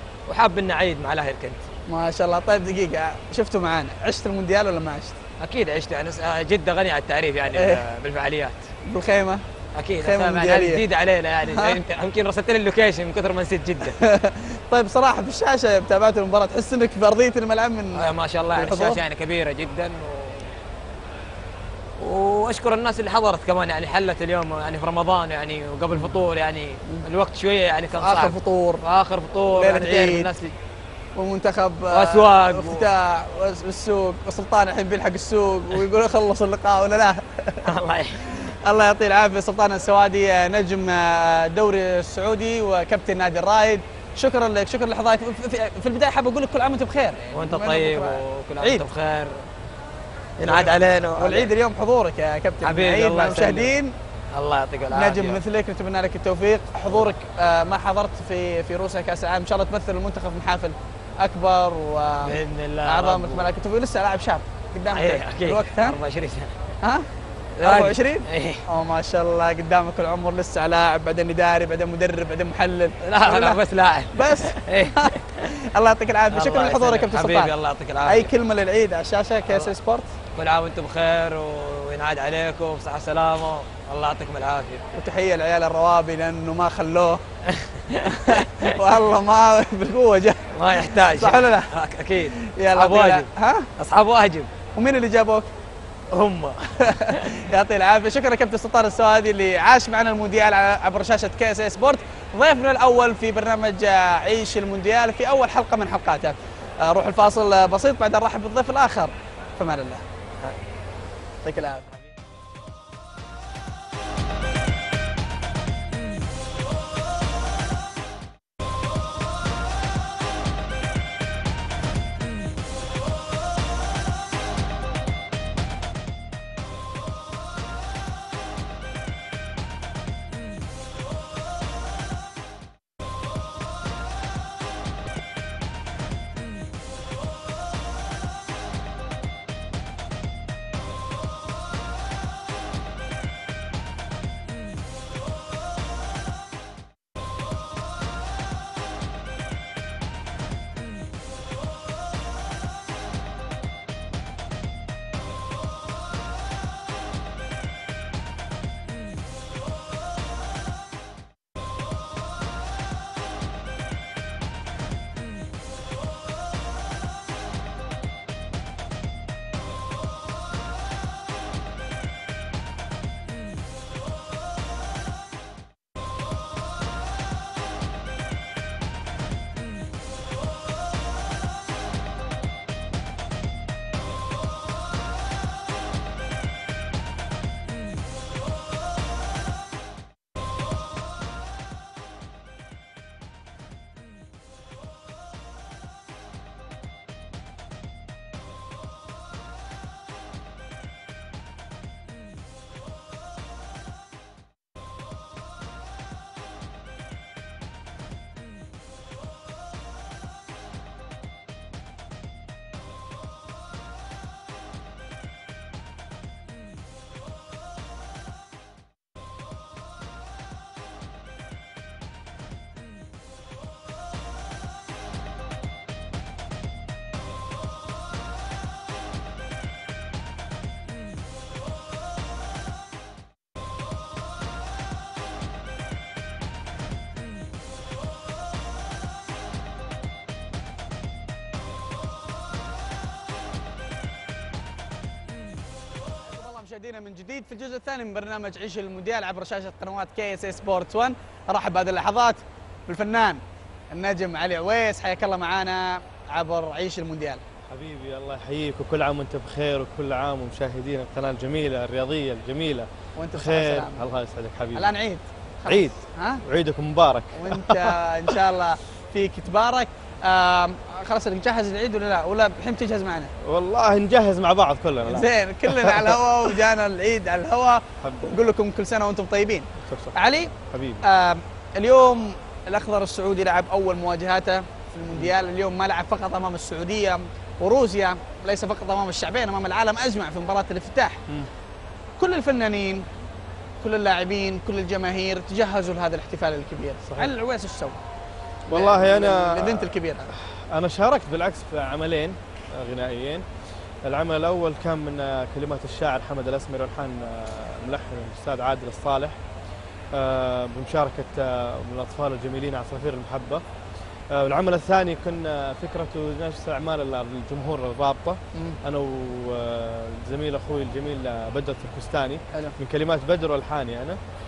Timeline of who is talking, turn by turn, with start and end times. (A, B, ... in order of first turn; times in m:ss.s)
0:00.3-0:01.6 A
0:01.9-0:05.2 B
0:05.4-0:08.7 A
0:07.5-0:07.8 B
0:08.9-0:09.4 B
0:09.7-0:14.0 A
0:10.0-0:10.8 B
0:11.4-0:11.8 B
0:13.8-0:19.0 B
0:17.9-0:20.5 A
0:22.0-0:30.6 A
0:28.0-0:28.8 B
0:29.5-0:30.3 B
0:31.2-0:37.7 B
0:31.9-0:32.9 A
0:37.6-0:38.2 A
0:38.3-0:48.8 B
0:47.3-0:49.5 A
0:50.4-0:51.5 A
0:50.4-0:54.0 B
0:52.6-0:53.8 A
0:54.3-0:55.4 A
0:54.9-1:06.0 B
1:02.2-1:03.5 A
1:04.9-1:06.5 A
1:07.6-1:08.6 A
1:07.6-1:13.6 B
1:13.0-1:15.5 A
1:14.1-1:17.5 B
1:16.3-1:18.3 A
1:18.0-1:20.1 B
1:20.4-1:24.8 A
1:24.9-1:27.2 B
1:27.5-1:28.8 A
1:28.0-1:30.5 B
1:30.5-1:34.5 A
1:31.1-1:31.7 B
1:32.4-1:33.7 B
1:34.8-1:35.5 B
1:36.1-1:37.4 A
1:36.8-1:50.0 B
1:51.4-1:51.9 B
4:06.2-4:17.4 B
4:17.7-4:24.9 C
4:23.2-4:24.0 B
4:24.8-4:26.4 B
4:25.7-4:28.4 C
4:27.3-4:33.3 B
4:33.4-4:36.2 C
4:35.0-4:40.5 B
4:38.0-4:38.3 C
4:39.8-4:41.0 C
4:41.0-4:51.2 B
4:52.2-4:53.0 B
4:53.8-4:58.0 B
4:57.1-4:57.3 C
4:58.7-5:03.5 C
4:58.7-5:00.3 B
5:04.0-5:09.4 C
5:10.1-5:13.6 C
5:14.3-5:24.2 C
5:18.5-5:18.8 B